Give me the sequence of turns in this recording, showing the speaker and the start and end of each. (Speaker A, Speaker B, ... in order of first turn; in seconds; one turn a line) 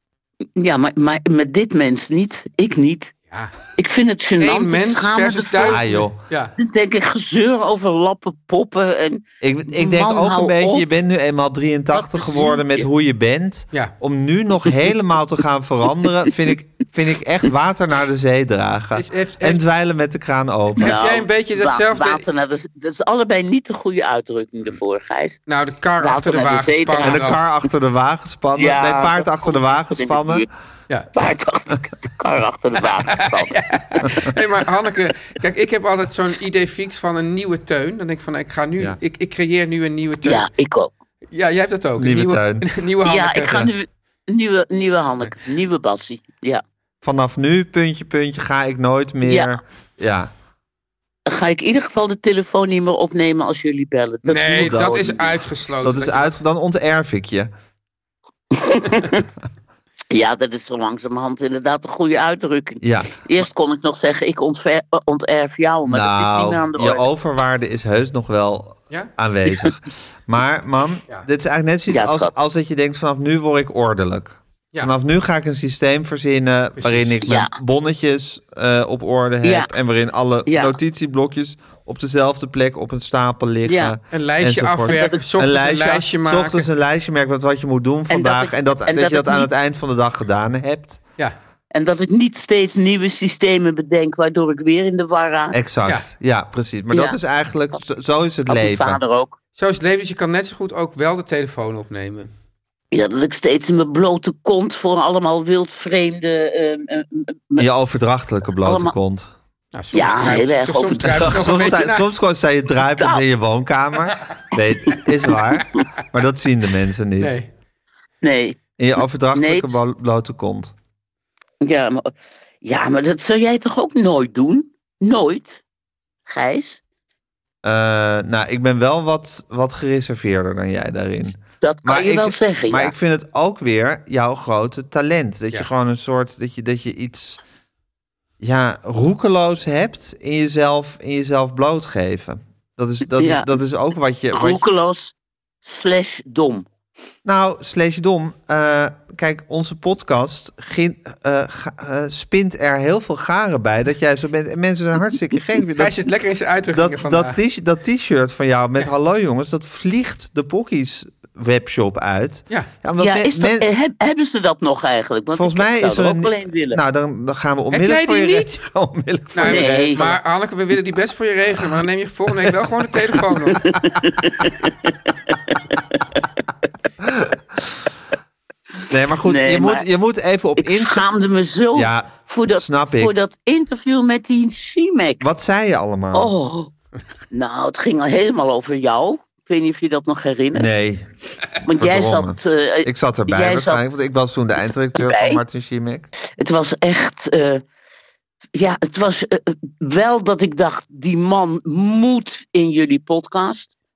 Speaker A: 0.6-3.1
Speaker B: 3.3-3.6
Speaker A: 3.8-6.0
Speaker B: 4.4-6.5
Speaker C: 5.7-6.2
Speaker A: 6.6-10.9
Speaker C: 9.4-20.9
Speaker B: 12.2-12.5
Speaker B: 18.9-19.6
Speaker A: 20.8-25.4
Speaker B: 20.8-22.2
Speaker B: 25.5-27.4
Speaker A: 26.0-27.4
Speaker C: 27.0-30.5
Speaker A: 28.6-30.5
Speaker A: 31.1-33.6
Speaker B: 33.1-40.5
Speaker A: 40.2-40.9
Speaker B: 41.3-43.7
Speaker C: 42.0-42.7
Speaker A: 43.0-46.6
Speaker C: 47.0-50.3
Speaker A: 49.2-49.6
Speaker A: 51.3-55.4
Speaker B: 54.2-56.4
Speaker C: 54.6-55.0
Speaker C: 55.8-57.5
Speaker A: 58.5-59.3
Speaker A: 60.1-67.1
Speaker C: 62.8-63.2
Speaker C: 65.9-91.0
Speaker A: 71.9-72.3
Speaker B: 76.8-77.2
Speaker A: 77.2-77.5
Speaker A: 79.4-79.7
Speaker A: 80.5-80.8
Speaker A: 83.6-84.0
Speaker B: 84.1-86.7
Speaker A: 84.9-85.2
Speaker A: 88.1-89.5
Speaker A: 91.7-95.6
Speaker C: 95.5-99.0
Speaker A: 96.9-97.2
Speaker A: 98.5-99.4
Speaker B: 99.6-102.3
Speaker A: 102.9-107.7
Speaker C: 107.6-109.3
Speaker A: 108.6-108.9
Speaker B: 109.7-112.1
Speaker A: 109.9-111.6
Speaker C: 111.1-117.4
Speaker A: 113.0-113.2
Speaker B: 117.2-117.5
Speaker A: 118.2-118.6
Speaker C: 118.8-120.7
Speaker A: 119.3-119.8
Speaker A: 121.6-125.6
Speaker A: 126.3-126.8
Speaker C: 127.6-137.4
Speaker A: 131.6-132.9
Speaker C: 138.4-144.6
Speaker A: 143.1-143.5
Speaker A: 144.3-146.7
Speaker C: 147.2-156.0
Speaker B: 155.8-157.4
Speaker C: 156.7-163.7
Speaker A: 163.0-166.8
Speaker C: 165.4-170.1
Speaker B: 167.7-168.6
Speaker B: 169.3-173.6
Speaker A: 169.4-170.2
Speaker A: 173.5-176.0
Speaker C: 177.0-177.3
Speaker C: 178.9-181.1
Speaker A: 179.2-179.9
Speaker A: 180.6-185.2
Speaker C: 181.7-183.1
Speaker C: 185.2-186.3
Speaker A: 186.1-186.7
Speaker A: 187.3-190.7
Speaker C: 190.5-191.1
Speaker A: 191.6-193.9
Speaker C: 191.7-196.1
Speaker A: 194.6-195.4
Speaker A: 196.4-197.6
Speaker A: 198.6-203.7